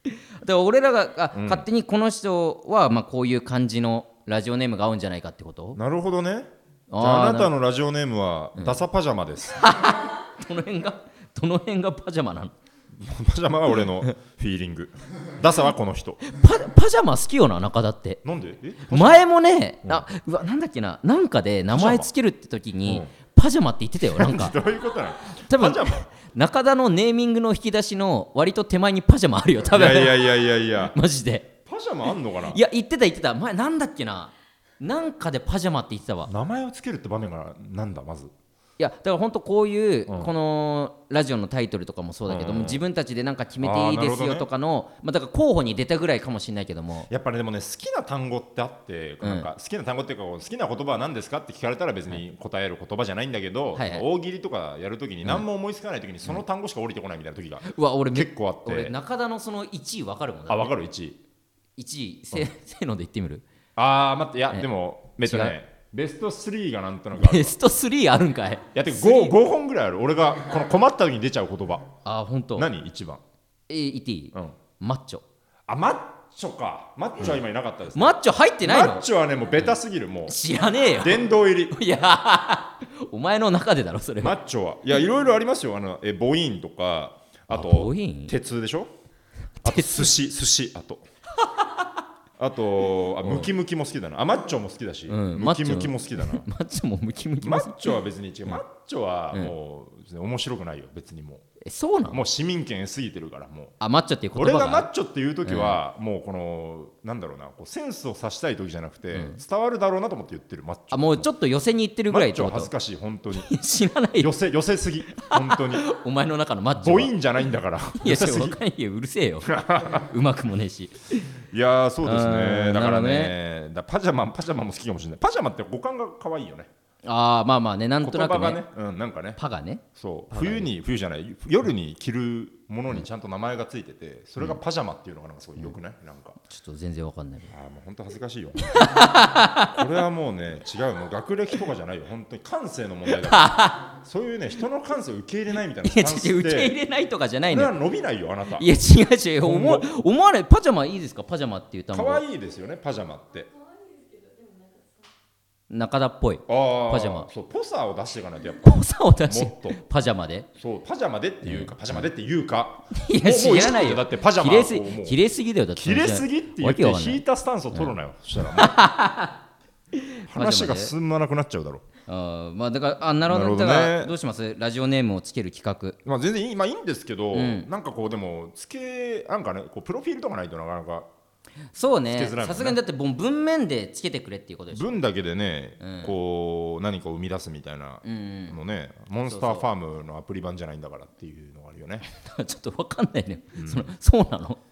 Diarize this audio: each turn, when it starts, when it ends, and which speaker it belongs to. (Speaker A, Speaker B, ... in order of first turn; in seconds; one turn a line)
Speaker A: 0.1-5.8
Speaker B: 1.3-1.6
Speaker B: 5.7-9.6
Speaker A: 6.9-7.5
Speaker A: 9.6-12.5
Speaker B: 12.9-16.2
Speaker A: 16.2-18.2
Speaker B: 18.2-19.2
Speaker A: 18.9-24.6
Speaker B: 21.7-22.1
Speaker B: 22.9-23.1
Speaker B: 24.0-26.1
Speaker A: 25.4-31.5
Speaker B: 29.6-30.9
Speaker B: 31.6-32.6
Speaker A: 32.5-36.3
Speaker B: 36.3-38.3
Speaker A: 38.8-47.1
Speaker B: 42.3-42.8
Speaker B: 43.6-44.5
Speaker B: 47.1-58.9
Speaker A: 49.2-49.5
Speaker A: 53.7-54.0
Speaker A: 57.6-60.7
Speaker B: 60.5-61.2
Speaker A: 61.8-63.4
Speaker B: 63.8-67.6
Speaker A: 65.2-65.5
Speaker A: 67.1-69.3
Speaker B: 68.7-71.9
Speaker A: 72.0-72.7
Speaker B: 72.5-73.2
Speaker A: 73.7-75.2
Speaker B: 75.7-80.4
Speaker A: 77.9-79.0
Speaker A: 80.3-84.3
Speaker B: 80.9-81.8
Speaker B: 84.2-88.9
Speaker A: 87.5-88.3
Speaker A: 89.6-90.1
Speaker B: 89.6-91.0
Speaker B: 92.4-96.5
Speaker A: 93.2-93.5
Speaker A: 95.1-98.0
Speaker B: 97.4-101.4
Speaker A: 101.6-102.2
Speaker B: 102.1-103.7
Speaker A: 103.8-104.9
Speaker B: 104.3-111.3
Speaker A: 105.4-105.8
Speaker A: 109.1-109.4
Speaker A: 110.9-112.7
Speaker B: 112.1-113.5
Speaker A: 113.3-114.3
Speaker B: 114.2-115.9
Speaker A: 115.2-117.2
Speaker B: 116.8-118.6
Speaker A: 118.0-121.3
Speaker B: 119.4-120.1
Speaker B: 121.5-126.7
Speaker A: 122.0-123.3
Speaker A: 127.0-128.6
Speaker B: 128.0-129.4
Speaker A: 129.4-130.7
Speaker B: 129.9-136.4
Speaker A: 136.5-137.5
Speaker B: 137.5-146.8
Speaker A: 138.7-139.8
Speaker A: 143.1-143.9
Speaker A: 145.8-147.7
Speaker B: 147.4-148.7
Speaker A: 148.6-152.2
Speaker B: 149.4-149.9
Speaker B: 151.9-153.5
Speaker A: 155.7-157.3
Speaker B: 156.5-159.8
Speaker A: 158.6-160.5
Speaker B: 160.6-165.2
Speaker A: 161.4-162.1
Speaker A: 162.9-169.3
Speaker B: 165.7-168.9
Speaker A: 169.9-170.9
Speaker B: 170.3-171.8
Speaker A: 172.1-176.0
Speaker B: 173.3-174.1
Speaker B: 176.0-181.1
Speaker A: 177.3-177.7
Speaker A: 181.7-185.0
Speaker B: 182.1-182.8
Speaker B: 184.7-192.0
Speaker A: 185.8-186.1
Speaker A: 188.0-188.6
Speaker A: 189.2-189.7
Speaker A: 192.1-194.6
Speaker B: 193.6-193.9